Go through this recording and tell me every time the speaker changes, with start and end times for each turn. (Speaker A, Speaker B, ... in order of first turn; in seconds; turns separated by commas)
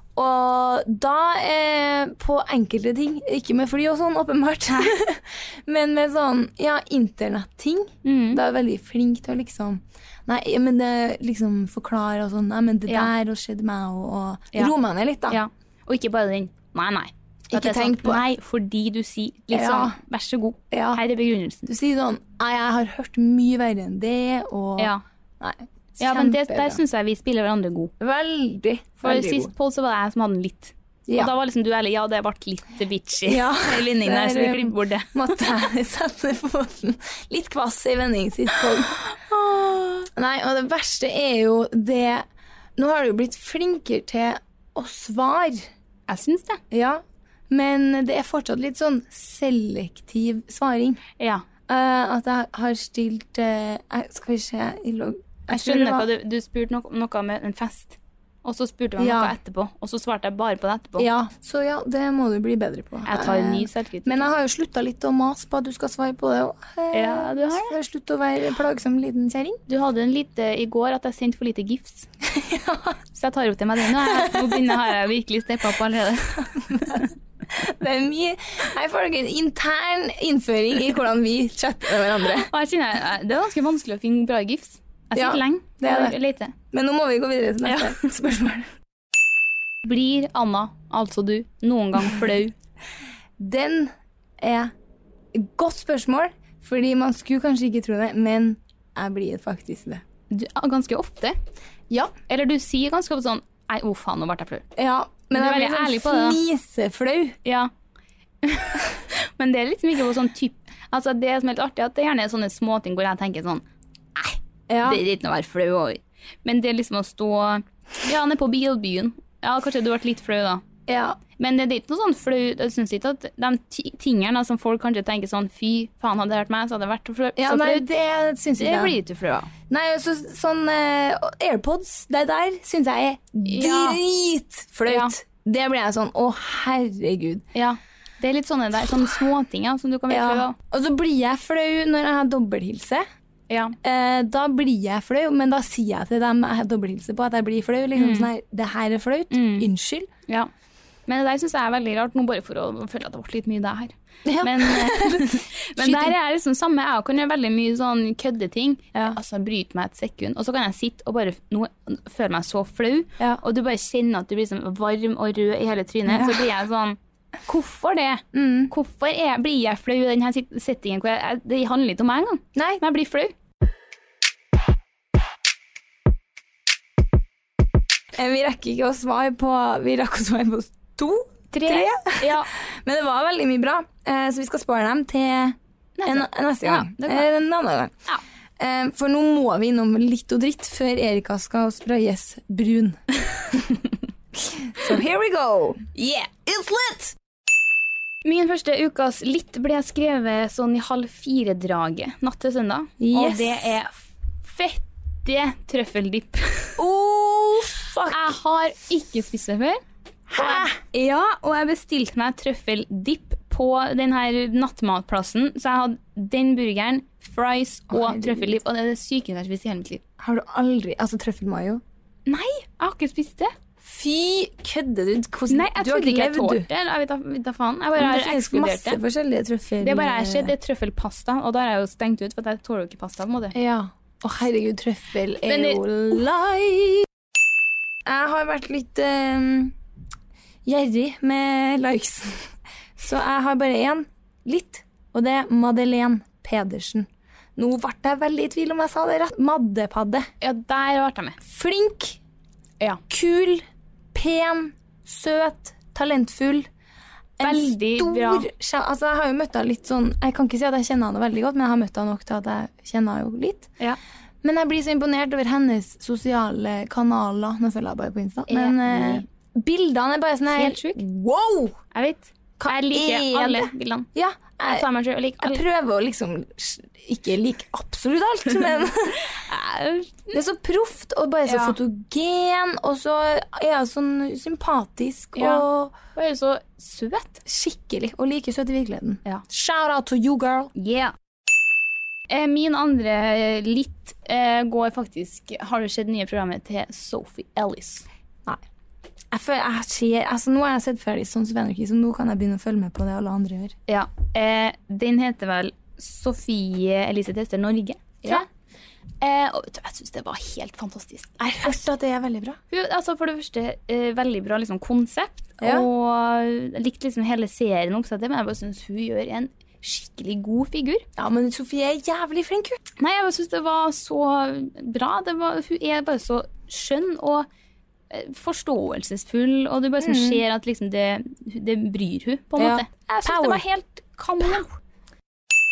Speaker A: 0.1-15.4, Speaker B: 8.0-8.4, Speaker B: 15.3-21.7, Speaker A: 17.5-18.2, Speaker A: 19.5-20.0, Speaker A: 20.7-21.0, Speaker A: 21.6-26.8, Speaker B: 26.0-27.9, Speaker A: 28.0-29.5, Speaker B: 29.0-35.4, Speaker A: 31.1-31.3, Speaker A: 33.2-42.2, Speaker A: 42.8-45.7, Speaker B: 46.1-46.6, Speaker A: 46.7-51.0, Speaker B: 51.2-51.5, Speaker A: 51.7-56.1, Speaker B: 55.5-61.1, Speaker A: 59.0-59.4, Speaker A: 61.0-69.6, Speaker B: 63.0-64.3, Speaker B: 66.9-67.8, Speaker B: 69.7-72.1, Speaker A: 72.3-73.0, Speaker B: 73.1-77.0, Speaker A: 74.0-74.7, Speaker A: 76.5-82.5, Speaker B: 82.3-86.5, Speaker A: 85.1-86.2, Speaker A: 86.7-88.7, Speaker B: 87.6-88.0, Speaker B: 89.8-92.5, Speaker A: 93.4-94.7, Speaker A: 95.3-100.0, Speaker B: 100.3-101.4, Speaker B: 102.2-104.6, Speaker A: 104.8-107.4, Speaker B: 105.3-106.4, Speaker B: 107.4-107.7, Speaker B: 108.4-113.6, Speaker B: 114.2-120.7, Speaker A: 114.7-115.0, Speaker A: 120.9-121.2, Speaker B: 121.4-127.9, Speaker A: 127.4-129.0, Speaker B: 128.6-129.5, Speaker A: 129.7-137.4, Speaker B: 133.4-134.0, Speaker B: 134.9-135.1, Speaker B: 137.5-140.6, Speaker A: 140.1-143.0, Speaker B: 143.5-143.8, Speaker A: 143.8-150.1, Speaker B: 147.9-148.3, Speaker B: 149.3-149.7, Speaker B: 151.1-173.3, Speaker A: 154.2-156.2, Speaker A: 166.1-166.4, Speaker A: 168.3-168.7, Speaker A: 172.5-172.8, Speaker A: 178.1-187.9, Speaker B: 181.5-182.5, Speaker B: 186.0-187.3, Speaker A: 188.6-197.1, Speaker B: 196.0-196.3, Speaker B: 198.2-206.8, Speaker A: 203.0-203.7, Speaker A: 206.8-208.4, Speaker B: 208.0-209.8, Speaker A: 210.3-210.8, Speaker B: 210.3-220.0, Speaker A: 217.9-218.6, Speaker A: 220.2-221.8, Speaker B: 222.3-223.5, Speaker A: 223.8-226.7, Speaker B: 225.5-229.0, Speaker A: 228.0-230.5, Speaker B: 229.8-233.6, Speaker A: 233.5-237.1, Speaker B: 235.4-235.8, Speaker A: 238.1-239.7, Speaker A: 240.6-250.3, Speaker B: 250.4-251.4, Speaker A: 251.4-252.2, Speaker A: 253.1-253.6, Speaker A: 254.1-256.7, Speaker A: 257.4-263.7, Speaker B: 257.4-258.5, Speaker A: 264.4-271.8, Speaker B: 268.5-269.2, Speaker B: 270.5-271.0, Speaker B: 271.9-274.1, Speaker A: 272.6-274.9, Speaker B: 274.6-275.6, Speaker A: 275.4-279.3, Speaker B: 279.1-280.4, Speaker A: 280.3-285.9, Speaker B: 281.4-281.8, Speaker B: 285.4-287.4, Speaker A: 287.4-290.7, Speaker B: 290.7-291.1, Speaker B: 292.3-298.1, Speaker A: 299.3-303.8, Speaker B: 303.9-308.5, Speaker B: 309.2-311.8, Speaker A: 311.4-312.6, Speaker B: 312.7-321.0, Speaker A: 315.6-315.9, Speaker A: 321.2-322.8, Speaker B: 323.0-327.5, Speaker B: 328.1-334.7, Speaker A: 330.0-330.4, Speaker A: 332.6-333.6